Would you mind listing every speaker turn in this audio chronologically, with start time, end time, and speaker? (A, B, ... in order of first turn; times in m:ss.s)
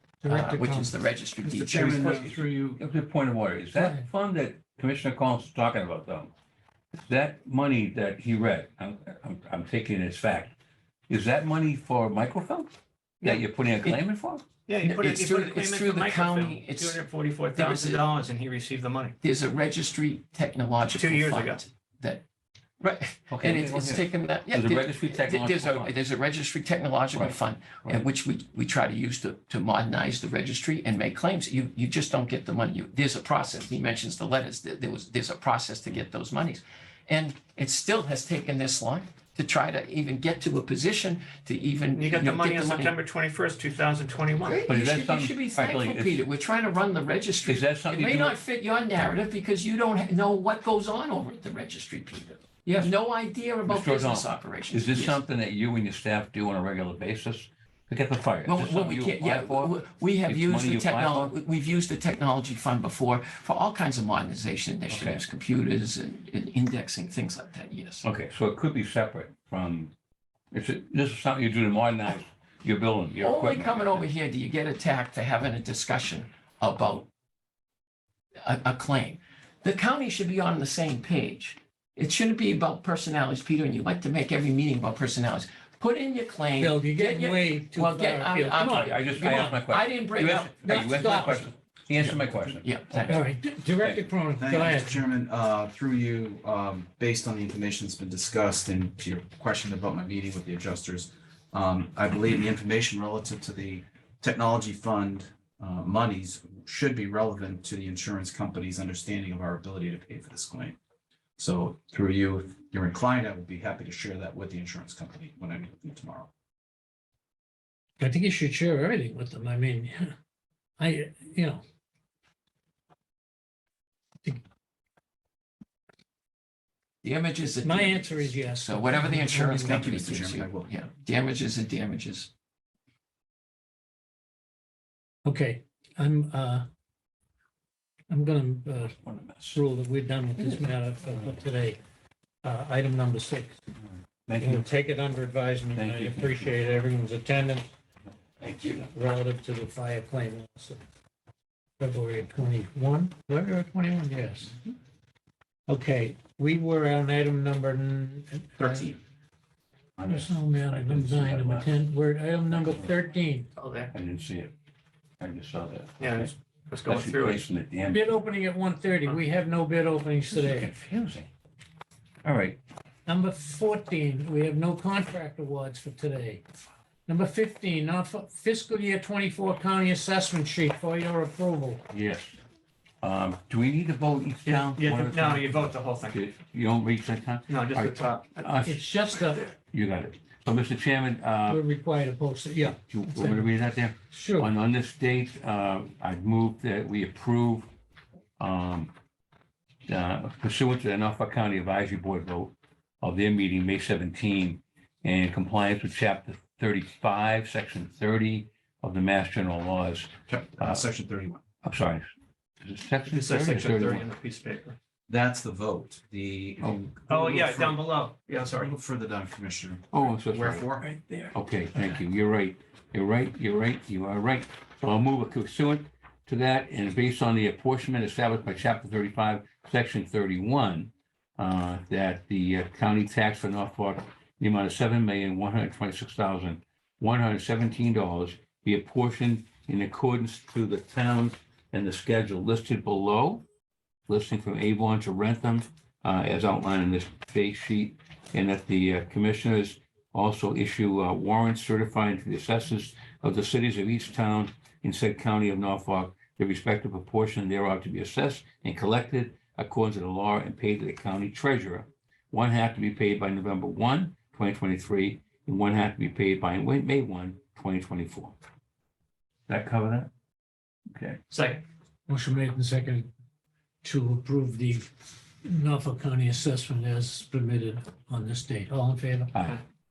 0:00.2-0:00.9 A
0:00.2-0:02.2 B
0:01.4-0:02.8 C
0:01.7-0:06.3 D
0:03.8-0:04.1 A
0:06.9-0:10.5 D
0:11.1-0:12.7 D
0:13.2-0:14.4 D
0:14.7-0:19.1 E
0:14.8-0:18.0 B
0:19.2-0:22.2 B
0:20.9-0:21.6 E
0:22.8-0:42.9 B
0:23.3-0:26.0 D
0:27.1-0:28.0 D
0:41.9-0:44.6 E
0:44.4-0:55.2 B
0:44.7-0:46.2 D
0:47.4-0:48.4 D
0:53.6-0:59.7 D
0:58.4-1:08.0 B
1:00.2-1:01.3 D
1:04.9-1:05.2 D
1:08.0-1:09.9 D
1:10.5-1:14.0 D
1:13.2-1:17.1 B
1:18.4-1:33.2 B
1:26.6-1:29.6 A
1:28.6-1:33.2 D
1:30.6-1:31.4 A
1:33.1-1:35.0 A
1:34.4-1:50.8 C
1:51.4-1:56.3 C
1:58.0-2:00.2 A
2:00.8-2:01.6 A
2:07.0-2:12.3 B
2:07.6-2:09.9 A
2:09.6-2:10.6 C
2:15.2-2:16.6 A
2:18.1-2:21.8 A
2:19.0-2:19.6 D
2:22.4-2:23.6 A
2:24.2-2:24.6 D
2:24.4-2:27.7 A
2:25.7-2:26.6 D
2:28.7-2:30.8 A
2:31.8-2:34.6 A
2:35.7-2:38.8 A
2:40.0-2:41.7 D
2:40.0-2:43.5 A
2:42.5-2:42.9 D
2:43.6-2:43.9 E
2:43.9-2:44.5 D
2:45.2-2:48.1 D
2:46.0-2:47.4 E
2:47.9-2:50.7 A
2:50.3-2:51.3 D
2:52.2-2:52.6 D
2:53.0-2:56.4 A
2:57.1-3:01.9 A
3:01.9-3:02.4 D
3:03.0-3:11.6 D
3:04.4-3:06.2 E
3:07.5-3:08.6 E
3:08.6-3:09.5 A
3:11.4-3:13.5 A
3:12.6-3:17.7 D
3:14.1-3:14.5 A
3:18.4-3:18.9 D
3:19.9-3:30.8 D
3:30.3-3:31.4 C
3:31.6-3:32.1 D
3:32.6-3:34.0 D
3:33.1-3:34.8 E
3:35.1-3:37.8 C
3:36.6-3:36.9 D
3:37.1-3:38.7 E
3:38.5-3:41.3 C
3:39.9-4:03.4 D
4:04.1-4:28.4 D
4:29.5-4:30.1 D
4:30.9-4:31.2 D
4:31.3-4:31.6 E
4:32.1-4:33.1 A
4:33.8-4:39.5 A
4:39.3-4:39.6 D